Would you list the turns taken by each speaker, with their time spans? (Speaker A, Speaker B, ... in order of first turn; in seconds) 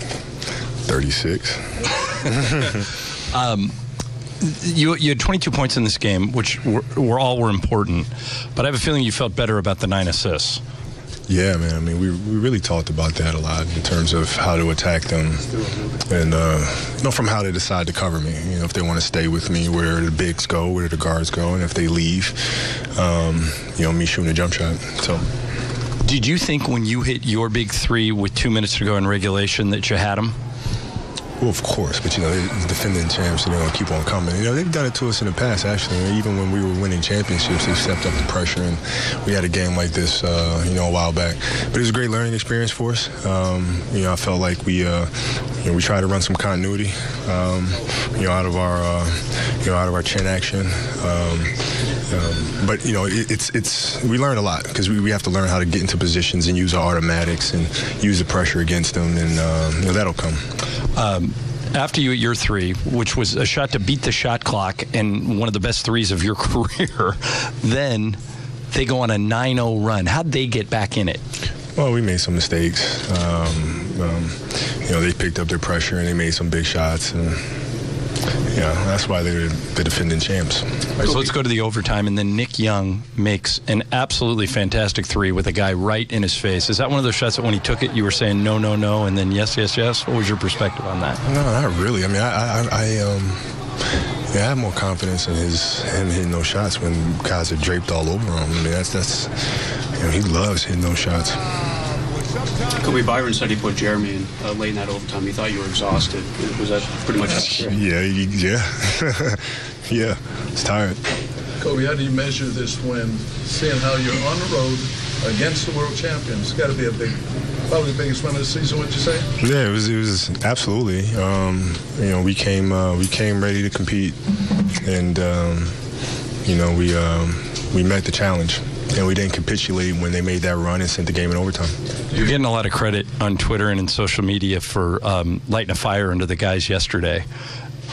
Speaker A: 0.8-2.7, 11.3-25.2, 31.4-60.4, 71.8-77.4, 78.5-80.7, 91.2-93.4, 94.3-99.3, 100.0-101.4, 107.4-111.0, 119.4-124.2, 124.8-125.8, 126.4-131.8
Speaker B: 3.3-3.7, 4.4-10.6, 26.0-30.4, 61.0-68.2, 68.7-71.2, 81.0-91.2, 132.1-137.2
Speaker C: 102.8-107.8
Speaker D: 111.6-119.3